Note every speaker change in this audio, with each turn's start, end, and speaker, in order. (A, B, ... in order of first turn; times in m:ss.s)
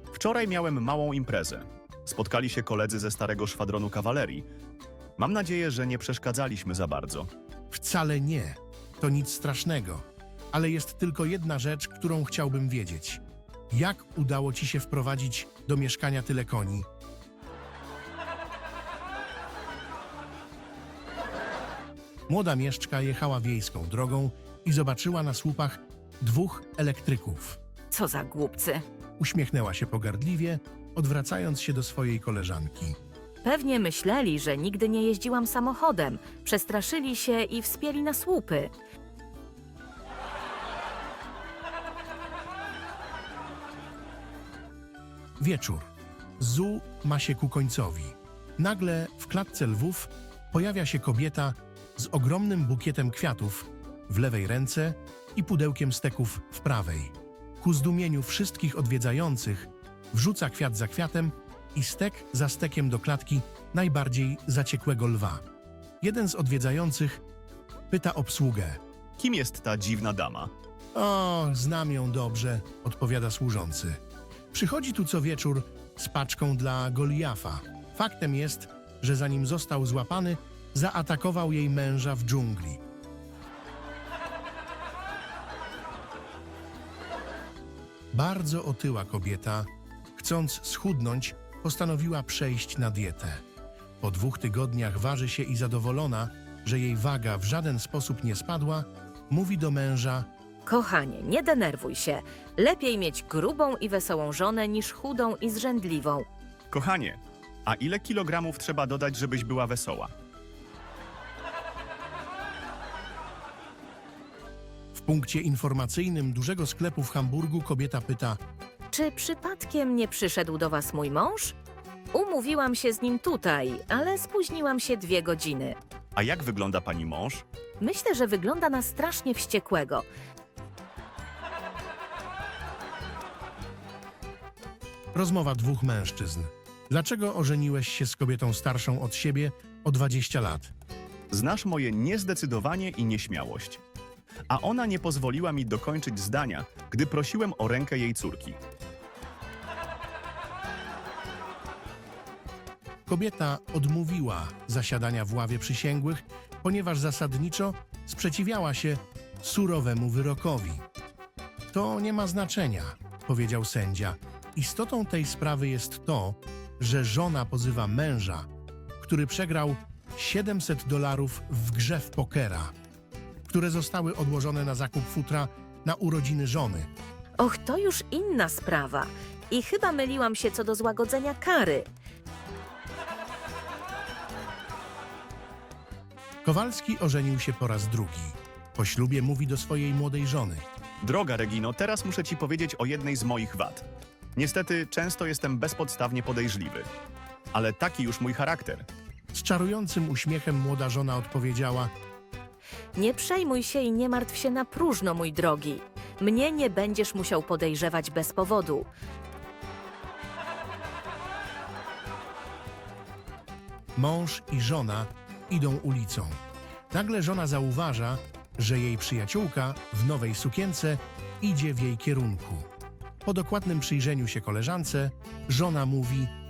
0:00.1-0:04.5 A
0:05.2-0:07.3 A
0:07.7-0:16.9 B
0:22.3-0:27.6 B
0:27.9-0:28.8 C
0:29.2-0:33.0 B
0:33.4-0:38.7 C
0:45.4-1:05.4 B
1:06.0-1:07.2 B
1:07.9-1:08.8 B
1:09.2-1:10.5 A
1:10.9-1:14.0 B
1:14.5-1:22.8 B
1:28.1-1:33.4 B
1:34.0-1:40.3 B
1:40.6-1:46.2 C
1:46.7-1:50.1 A
1:54.9-1:58.4 B
1:58.9-2:01.5 C
2:02.1-2:05.8 C
2:06.2-2:07.4 A
2:07.8-2:10.0 C
2:15.1-2:20.7 B
2:21.3-2:23.8 A
2:24.5-2:28.6 A
2:33.1-2:40.8 B
2:41.7-2:48.5 B
2:49.0-2:52.7 B
2:53.4-2:56.9 B
2:57.4-3:01.8 C
3:06.4-3:10.6 B
3:11.0-3:16.9 A
3:17.5-3:18.8 A
3:19.3-3:21.9 B
3:23.0-3:28.9 C
3:34.0-3:36.4 B
3:36.9-3:42.7 B
3:43.2-3:46.3 B